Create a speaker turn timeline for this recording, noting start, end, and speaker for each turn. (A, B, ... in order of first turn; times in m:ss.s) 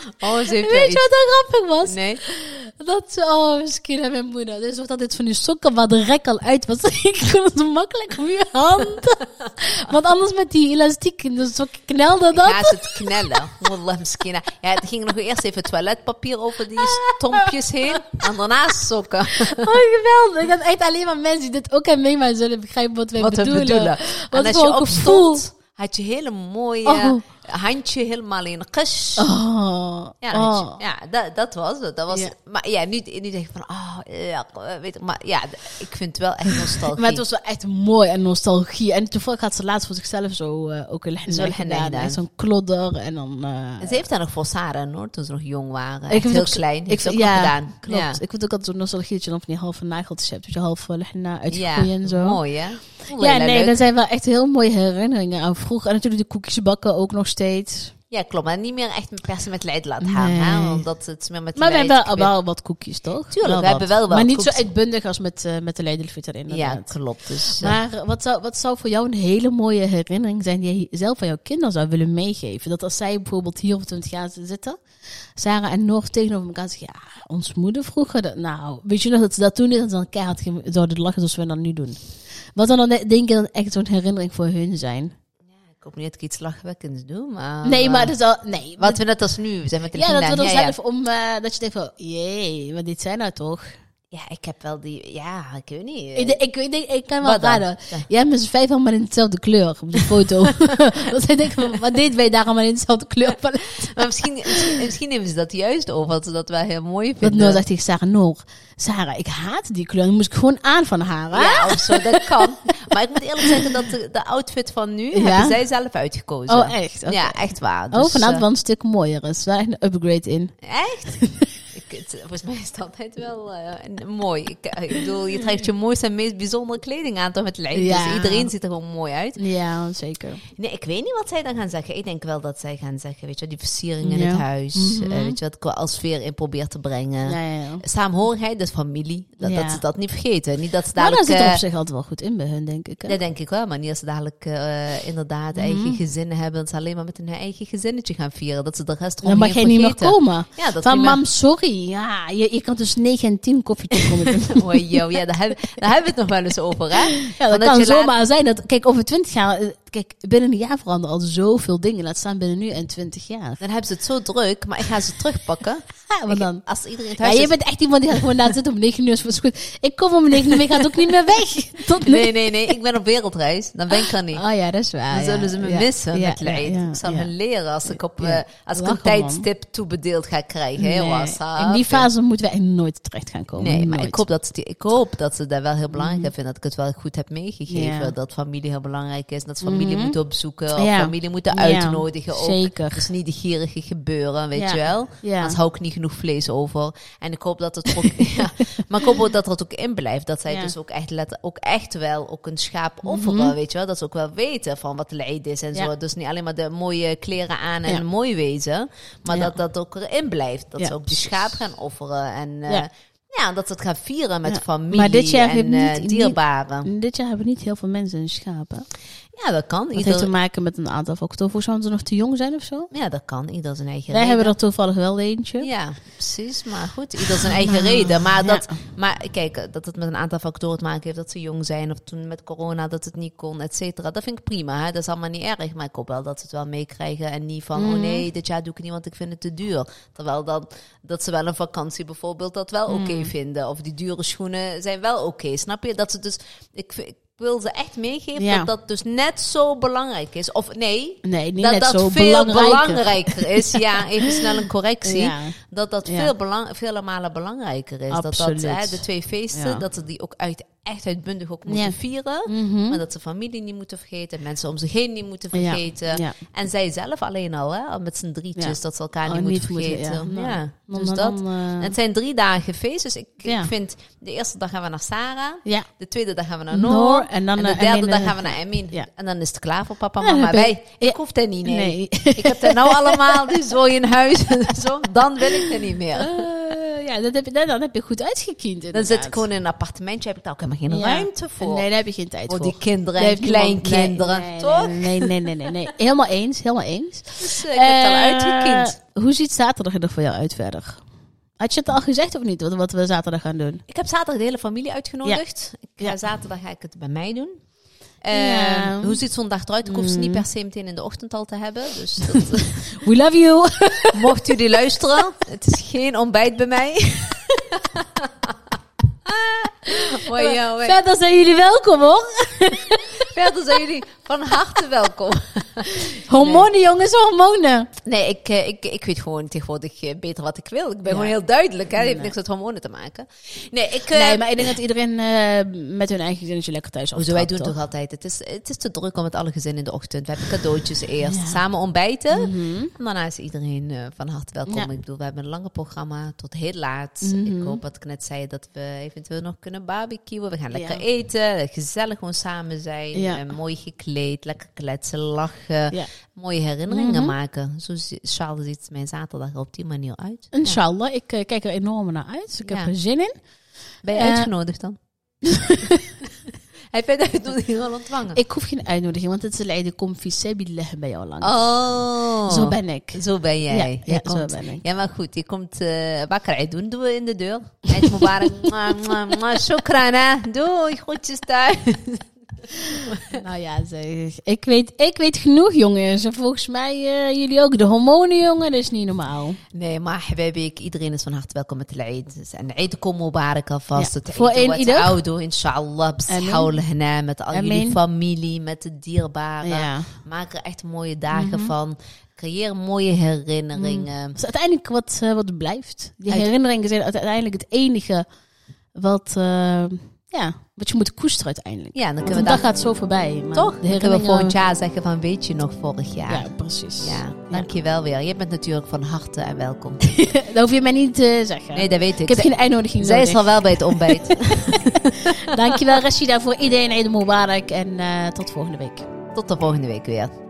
0:00.2-0:01.0 A
0:00.4-0:13.5 B
0:01.8-0:02.2 A
0:12.3-0:19.8 A
0:16.8-0:18.2 B
0:19.3-0:25.4 B
0:23.2-0:29.3 A
0:26.8-0:27.2 B
0:29.2-0:30.8 B
0:30.2-0:37.2 A
0:36.5-0:44.0 B
0:41.2-0:42.2 A
0:43.8-0:48.2 A
0:46.1-0:52.4 B
0:51.5-0:53.8 A
0:53.0-0:57.9 B
0:58.1-1:02.3 A
1:00.0-1:00.8 B
1:01.6-1:14.8 B
1:03.3-1:04.6 A
1:06.5-1:07.8 A
1:15.4-1:22.0 B
1:22.6-1:25.1 B
1:25.5-1:28.1 A
1:27.6-1:29.0 B
1:28.8-1:30.8 A
1:29.9-1:33.7 B
1:34.1-1:36.4 A
1:36.1-1:44.8 B
1:37.2-1:38.1 A
1:43.8-1:47.6 A
1:47.2-1:52.5 B
1:51.3-1:58.4 A
1:53.4-1:53.7 B
1:55.1-1:55.6 B
1:56.5-2:00.5 B
2:00.6-2:01.2 A
2:01.1-2:01.6 B
2:01.7-2:09.4 A
2:07.7-2:08.5 B
2:09.4-2:10.4 B
2:10.4-2:21.6 A
2:14.0-2:15.4 B
2:17.2-2:17.8 B
2:19.4-2:19.8 B
2:21.0-2:23.2 B
2:23.1-2:31.2 A
2:25.6-2:26.0 B
2:29.2-2:35.0 B
2:34.0-2:38.1 A
2:36.9-2:43.6 B
2:43.6-2:47.5 A
2:46.1-2:46.6 B
2:47.2-2:52.7 B
2:48.2-2:48.5 A
2:50.4-2:51.2 A
2:51.9-2:54.4 A
2:54.0-2:57.3 B
2:55.1-3:02.1 A
2:57.9-2:59.5 B
3:00.8-3:04.2 B
3:03.6-3:36.9 A
3:05.9-3:06.3 B
3:07.7-3:08.1 B
3:09.6-3:10.2 B
3:10.7-3:13.1 B
3:14.5-3:15.6 B
3:17.9-3:18.8 B
3:23.0-3:23.5 B
3:29.3-3:29.5 B
3:34.4-3:38.9 B
3:39.3-3:40.3 A
3:39.9-3:42.9 B
3:42.9-3:44.5 A
3:44.1-3:45.7 B
3:45.6-4:46.4 A
3:47.4-3:48.8 B
3:57.8-3:58.2 B
4:02.9-4:03.3 B
4:08.4-4:08.7 B
4:11.2-4:16.3 B
4:18.1-4:19.8 B
4:21.7-4:23.0 B
4:25.5-4:26.4 B
4:28.6-4:32.0 B
4:33.4-4:33.7 B
4:36.7-4:39.1 B
4:40.2-4:43.7 B
4:45.5-4:49.4 B
4:48.9-4:51.8 A
4:50.9-5:01.0 B
4:52.5-4:55.5 A
4:57.4-4:59.0 A
5:01.6-5:03.8 B
5:03.9-5:07.6 A
5:08.2-5:13.0 A
5:08.3-5:09.2 B
5:09.8-5:10.4 B
5:12.2-5:14.4 B
5:14.1-5:21.0 A
5:20.0-5:23.3 B
5:23.2-5:26.7 A
5:25.9-5:27.9 B
5:28.0-5:34.8 A
5:31.0-5:31.3 B
5:32.0-5:32.3 B
5:34.1-5:37.7 B
5:37.1-6:00.8 A
5:41.2-5:41.6 B
5:42.3-5:42.9 B
5:47.2-5:47.8 B
5:50.7-5:51.0 B
5:53.1-5:53.4 B
5:56.9-5:57.3 B
6:00.5-6:03.3 B
6:02.6-6:02.9 A
6:04.0-6:05.0 A
6:04.1-6:04.5 B
6:05.4-6:06.2 B
6:06.5-6:08.4 A
6:08.3-6:11.7 B
6:11.4-6:23.4 A
6:12.4-6:14.8 B
6:18.0-6:19.0 B
6:23.3-6:29.6 B
6:29.7-6:44.4 A
6:33.9-6:35.2 B
6:36.3-6:36.7 B
6:37.5-6:38.0 B
6:39.6-6:40.1 B
6:41.3-6:41.7 B
6:43.7-6:48.2 B
6:48.9-6:54.5 B
6:51.9-6:52.7 A
6:53.5-6:56.5 A
6:56.3-6:57.7 B
6:57.0-7:00.0 A
7:00.0-7:09.1 B
7:01.7-7:06.0 A
7:09.3-7:10.3 A